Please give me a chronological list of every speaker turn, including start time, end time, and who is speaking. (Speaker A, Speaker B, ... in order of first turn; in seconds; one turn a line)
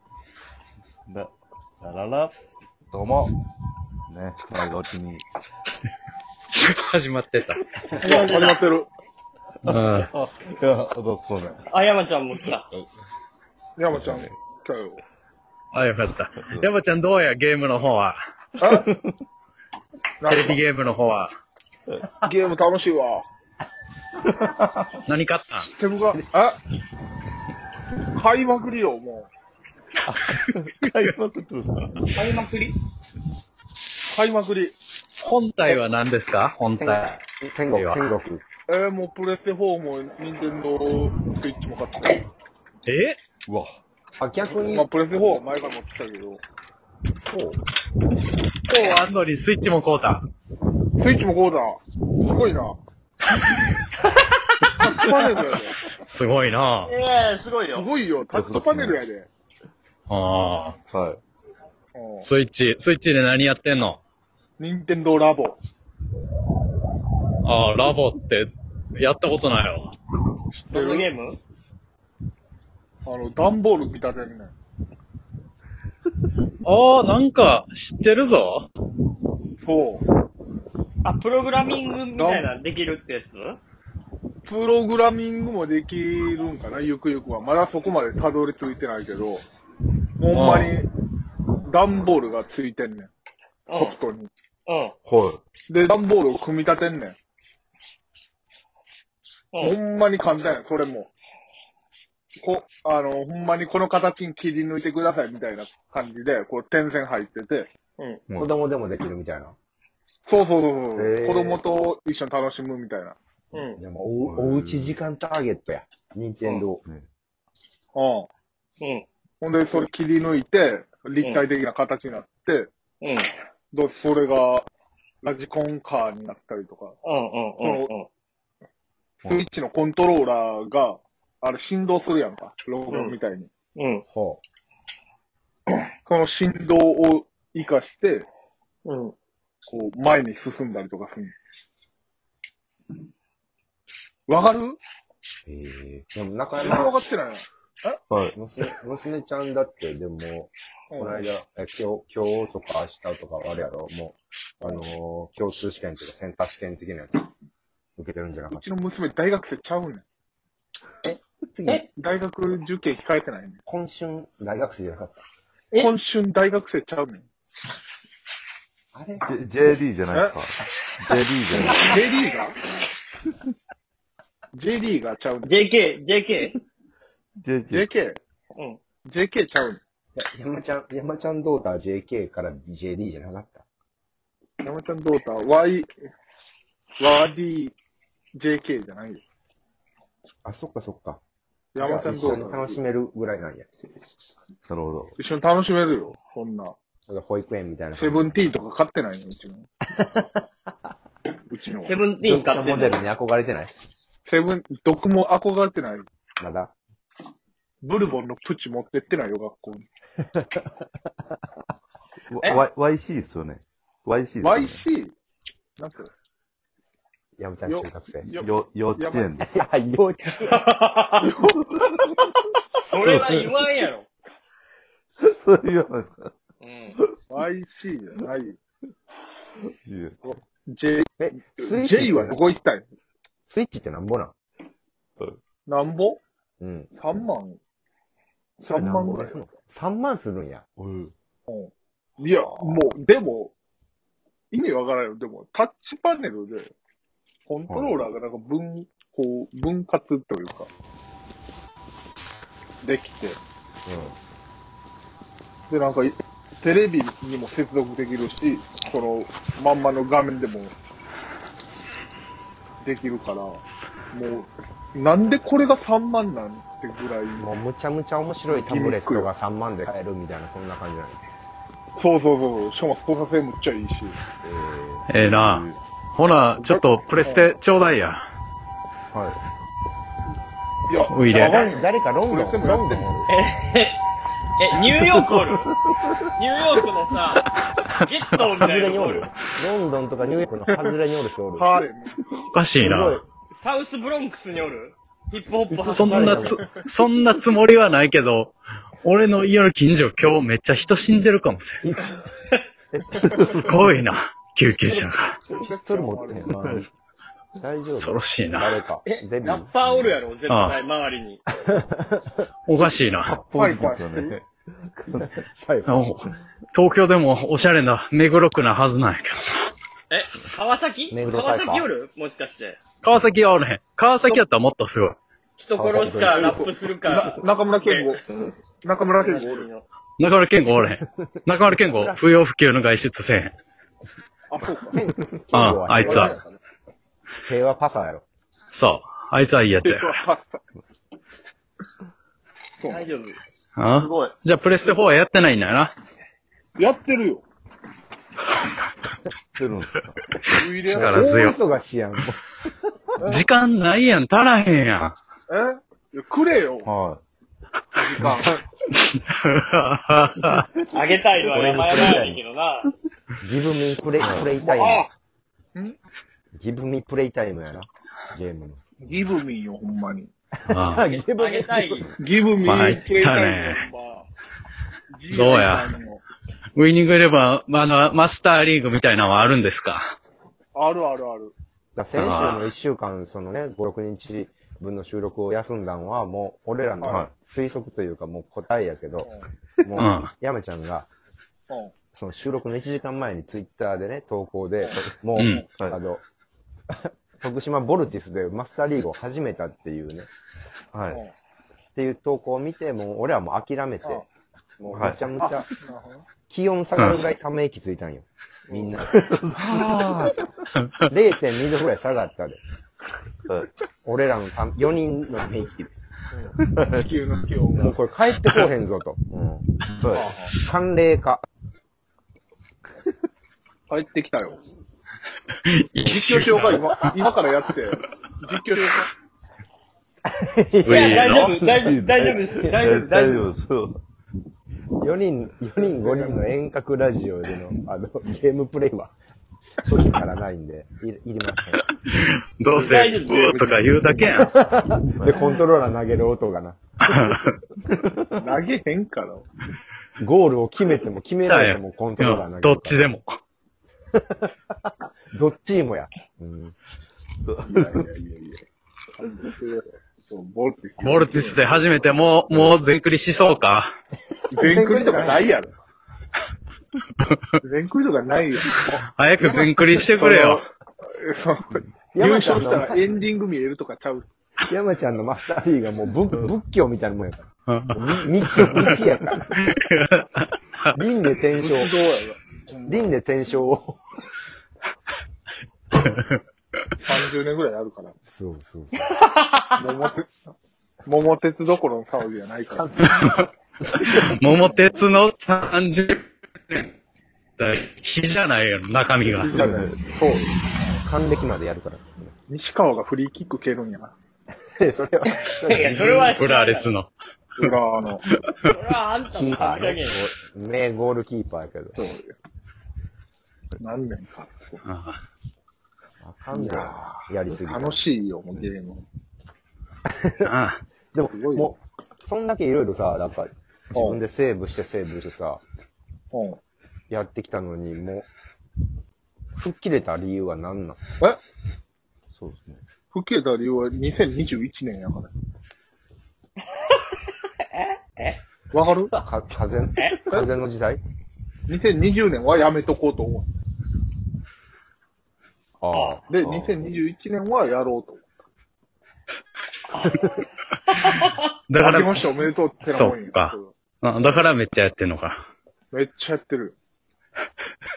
Speaker A: 1.1-2.3
Speaker A: 2.9-3.3
Speaker A: 4.1-5.2
Speaker B: 6.5-7.6
Speaker C: 8.0-8.6
Speaker D: 8.0-8.9
Speaker B: 9.7-10.1
Speaker A: 9.7-11.6
Speaker C: 11.7-12.7
Speaker D: 13.8-15.0
Speaker A: 13.9-14.3
Speaker B: 15.7-18.2
Speaker A: 16.4-16.7
Speaker D: 18.6-18.9
Speaker A: 18.6-19.1
Speaker D: 20.2-20.6
Speaker B: 20.3-21.3
Speaker D: 22.2-23.2
Speaker A: 24.2-24.9
Speaker B: 25.0-25.7
Speaker D: 25.7-26.6
Speaker D: 28.1-29.3
Speaker A: 30.1-32.2
Speaker C: 32.1-32.8
Speaker D: 34.1-34.7
Speaker B: 35.2-37.2
Speaker E: 36.8-38.4
Speaker B: 37.7-38.0
Speaker D: 38.7-42.2
Speaker B: 42.9-43.2
Speaker A: 43.5-43.8
Speaker E: 44.2-44.9
Speaker D: 44.6-46.4
Speaker E: 47.2-47.6
Speaker B: 48.7-50.2
Speaker D: 51.0-52.8
Speaker D: 54.8-55.8
Speaker B: 56.0-56.9
Speaker C: 56.8-57.9
Speaker D: 57.7-59.3
Speaker A: 58.3-59.0
Speaker B: 60.1-60.8
Speaker A: 60.9-61.2
Speaker D: 61.9-62.3
Speaker B: 62.2-64.0
Speaker D: 64.6-65.6
Speaker B: 67.4-69.9
Speaker D: 70.5-71.1
Speaker C: 70.7-71.4
Speaker D: 73.0-74.5
Speaker B: 76.6-78.7
Speaker D: 79.6-80.0
Speaker C: 81.0-83.6
Speaker D: 82.2-82.5
Speaker D: 84.4-89.4
Speaker D: 90.2-90.9
Speaker B: 90.3-90.8
Speaker D: 91.6-93.1
Speaker C: 93.7-93.9
Speaker D: 93.7-94.3
Speaker C: 94.7-94.9
Speaker A: 95.0-95.4
Speaker D: 95.7-97.2
Speaker D: 99.6-101.1
Speaker D: 102.4-107.7
Speaker C: 108.0-108.2
Speaker E: 108.3-109.5
Speaker D: 110.2-113.2
Speaker E: 111.0-111.6
Speaker C: 113.5-113.8
Speaker E: 113.8-116.8
Speaker A: 114.2-115.0
Speaker D: 117.9-118.3
Speaker C: 118.8-119.0
Speaker D: 119.4-122.7
Speaker C: 123.0-123.3
Speaker D: 123.7-124.7
Speaker D: 125.2-127.0
Speaker C: 127.0-128.1
Speaker D: 127.6-127.9
Speaker D: 129.2-133.5
Speaker C: 133.8-134.0
Speaker E: 134.1-134.4
Speaker D: 135.7-138.3
Speaker C: 138.8-139.1
Speaker D: 139.7-141.3
Speaker D: 144.3-144.8
Speaker E: 145.5-146.9
Speaker D: 146.6-148.0
Speaker A: 148.1-148.3
Speaker E: 148.3-157.3
Speaker D: 150.9-151.2
Speaker E: 158.0-158.6
Speaker D: 158.5-160.0
Speaker E: 161.0-161.8
Speaker D: 161.9-163.6
Speaker E: 163.7-165.2
Speaker D: 165.7-167.2
Speaker E: 168.9-169.3
Speaker A: 169.2-172.0
Speaker D: 171.7-172.6
Speaker D: 174.5-175.6
Speaker C: 175.4-176.6
Speaker A: 177.4-177.9
Speaker D: 177.7-178.2
Speaker D: 179.0-179.8
Speaker E: 180.2-183.7
Speaker D: 184.6-185.9
Speaker D: 187.0-187.8
Speaker D: 188.3-189.2
Speaker E: 190.4-191.2
Speaker D: 191.7-192.8
Speaker E: 191.8-193.7
Speaker A: 194.7-195.1
Speaker D: 195.2-196.7
Speaker E: 197.1-198.3
Speaker D: 197.9-199.7
Speaker E: 200.0-200.3
Speaker D: 201.5-202.0
Speaker C: 201.8-203.0
Speaker E: 202.2-203.7
Speaker D: 204.2-206.1
Speaker E: 206.4-206.7
Speaker D: 207.8-209.8
Speaker E: 210.2-210.7
Speaker A: 212.3-214.8
Speaker D: 214.4-215.1
Speaker D: 215.8-216.1
Speaker E: 217.4-218.3
Speaker D: 217.7-219.3
Speaker A: 218.3-219.6
Speaker E: 219.4-220.7
Speaker C: 220.6-221.3
Speaker A: 221.2-222.0
Speaker C: 222.8-224.1
Speaker A: 225.2-226.3
Speaker C: 226.6-227.0
Speaker D: 227.3-228.6
Speaker A: 229.6-230.4
Speaker D: 230.7-232.8
Speaker E: 231.2-232.4
Speaker E: 233.5-234.3
Speaker D: 235.7-236.2
Speaker E: 236.6-237.1
Speaker D: 237.0-237.6
Speaker D: 238.6-239.5
Speaker E: 238.7-240.6
Speaker A: 240.8-241.1
Speaker D: 241.5-243.5
Speaker D: 244.5-246.7
Speaker D: 247.5-250.7
Speaker D: 252.8-253.4
Speaker E: 253.8-254.1
Speaker D: 255.7-260.7
Speaker D: 262.8-267.5
Speaker E: 267.4-271.2
Speaker D: 268.5-269.3
Speaker D: 272.0-274.2
Speaker A: 274.4-275.8
Speaker B: 275.1-278.2
Speaker D: 276.6-277.5
Speaker D: 280.9-283.2
Speaker B: 281.1-281.6
Speaker E: 281.3-283.3
Speaker C: 283.3-284.0
Speaker C: 284.6-285.7
Speaker A: 285.1-286.3
Speaker C: 286.3-287.4
Speaker C: 288.0-289.3
Speaker E: 288.6-291.7
Speaker D: 290.7-290.9
Speaker D: 291.6-292.2
Speaker B: 292.5-293.2
Speaker E: 292.8-293.2
Speaker C: 293.6-296.6
Speaker E: 295.7-296.6
Speaker B: 295.9-301.8
Speaker E: 301.8-302.2
Speaker E: 302.9-303.8
Speaker A: 303.3-303.7
Speaker B: 303.3-305.4
Speaker D: 305.6-306.6
Speaker E: 305.6-306.9
Speaker A: 306.5-306.9
Speaker E: 307.6-310.2
Speaker B: 307.9-308.8
Speaker C: 309.0-311.4
Speaker B: 310.5-310.8
Speaker E: 311.6-312.5
Speaker B: 312.7-313.3
Speaker A: 313.2-315.4
Speaker D: 313.5-314.4
Speaker E: 315.1-316.0
Speaker B: 315.9-319.7
Speaker C: 320.1-322.8
Speaker E: 321.1-321.9
Speaker B: 323.0-325.2
Speaker C: 325.6-328.1
Speaker E: 325.8-326.5
Speaker D: 326.4-328.2
Speaker D: 328.8-329.7
Speaker C: 329.2-329.9
Speaker B: 330.2-333.5
Speaker E: 331.7-332.2
Speaker D: 334.5-335.0
Speaker E: 334.9-336.5
Speaker B: 335.5-336.3
Speaker D: 335.9-336.4
Speaker E: 337.4-338.2
Speaker B: 338.7-340.1
Speaker D: 339.8-340.4
Speaker D: 342.8-343.1
Speaker C: 342.9-343.4
Speaker B: 343.8-345.9
Speaker C: 344.0-344.3
Speaker D: 346.8-347.4
Speaker A: 349.6-350.2
Speaker D: 350.5-351.4
Speaker B: 350.8-351.6
Speaker E: 350.9-352.5
Speaker E: 353.1-353.4
Speaker B: 353.3-355.1
Speaker D: 355.5-356.9
Speaker A: 356.8-357.2
Speaker D: 357.9-358.6
Speaker B: 359.2-360.6
Speaker C: 360.9-362.9
Speaker E: 361.5-362.4
Speaker E: 363.4-365.1
Speaker A: 364.2-364.5
Speaker D: 364.5-365.1
Speaker E: 366.5-368.8
Speaker D: 369.0-370.3
Speaker E: 370.6-372.1
Speaker B: 370.7-371.1
Speaker C: 371.1-372.1
Speaker D: 372.2-374.3
Speaker B: 372.6-373.8
Speaker D: 375.1-376.2
Speaker B: 375.3-375.9
Speaker B: 376.8-380.1
Speaker D: 380.7-381.5
Speaker E: 381.9-391.1
Speaker B: 382.1-382.7
Speaker D: 387.0-387.2
Speaker A: 387.1-387.3
Speaker B: 390.0-390.3
Speaker E: 392.1-396.2
Speaker B: 395.4-395.6
Speaker E: 396.9-400.3
Speaker A: 400.9-401.2
Speaker E: 401.9-404.3
Speaker E: 404.8-405.6
Speaker A: 404.9-405.2
Speaker D: 405.4-406.3
Speaker E: 406.5-410.4
Speaker D: 408.7-409.0
Speaker A: 409.1-410.4
Speaker E: 411.1-412.6
Speaker E: 414.0-415.9
Speaker D: 416.3-418.0
Speaker A: 416.6-417.1
Speaker E: 417.7-419.7
Speaker A: 419.9-420.3
Speaker D: 420.1-420.6
Speaker E: 420.5-421.4
Speaker D: 423.9-424.6
Speaker B: 425.6-427.2
Speaker D: 426.0-429.1
Speaker E: 430.2-431.9
Speaker B: 430.8-431.6
Speaker C: 430.9-433.4
Speaker A: 431.8-434.0
Speaker E: 435.0-439.1
Speaker D: 435.9-436.4
Speaker E: 439.8-441.9
Speaker B: 442.1-444.5
Speaker C: 442.7-443.5
Speaker D: 442.8-444.3
Speaker E: 444.3-447.4
Speaker A: 445.2-445.6
Speaker B: 447.0-447.5
Speaker A: 447.9-448.5
Speaker D: 448.4-449.5
Speaker E: 450.2-453.1
Speaker B: 451.5-453.3
Speaker E: 454.1-454.5
Speaker E: 455.3-456.7
Speaker A: 457.4-458.1
Speaker D: 457.7-458.6
Speaker D: 459.2-462.0
Speaker B: 461.0-463.9
Speaker D: 464.5-465.7
Speaker E: 464.5-465.5
Speaker D: 467.6-468.8
Speaker B: 469.1-470.6
Speaker D: 469.4-474.2
Speaker E: 472.1-473.1
Speaker E: 474.7-479.5
Speaker B: 477.7-480.9
Speaker E: 480.9-481.9
Speaker D: 481.6-483.1
Speaker E: 482.9-484.0
Speaker B: 485.9-486.4
Speaker D: 487.0-488.1
Speaker E: 488.3-489.1
Speaker C: 489.3-489.6
Speaker D: 489.8-490.4
Speaker D: 491.1-492.9
Speaker E: 492.7-494.3
Speaker B: 493.2-493.4
Speaker B: 494.0-496.9
Speaker D: 494.5-494.8
Speaker B: 497.6-499.6
Speaker D: 499.3-500.5
Speaker E: 499.5-499.9
Speaker A: 499.6-499.9
Speaker E: 501.0-502.3
Speaker D: 502.5-504.1
Speaker E: 504.7-506.4
Speaker C: 505.4-506.9
Speaker B: 506.4-507.1
Speaker D: 507.6-508.2
Speaker C: 508.6-510.2
Speaker E: 509.3-512.0
Speaker D: 511.9-512.3
Speaker D: 513.8-514.8
Speaker B: 514.8-515.2
Speaker E: 516.2-518.0
Speaker D: 516.5-519.0
Speaker E: 520.0-520.5
Speaker B: 520.4-520.8
Speaker E: 521.1-525.6
Speaker D: 521.3-521.7
Speaker D: 523.9-524.2
Speaker D: 526.3-526.6
Speaker E: 527.1-528.3
Speaker E: 529.6-531.0
Speaker A: 532.3-532.8
Speaker D: 533.1-535.3
Speaker C: 537.7-538.4
Speaker D: 538.7-539.1
Speaker E: 539.1-541.0
Speaker D: 541.7-543.5
Speaker E: 545.8-546.4
Speaker C: 545.9-546.2
Speaker D: 546.3-548.3
Speaker C: 549.9-550.2
Speaker C: 551.1-551.3
Speaker B: 551.1-555.5
Speaker D: 551.8-553.7
Speaker D: 555.9-556.8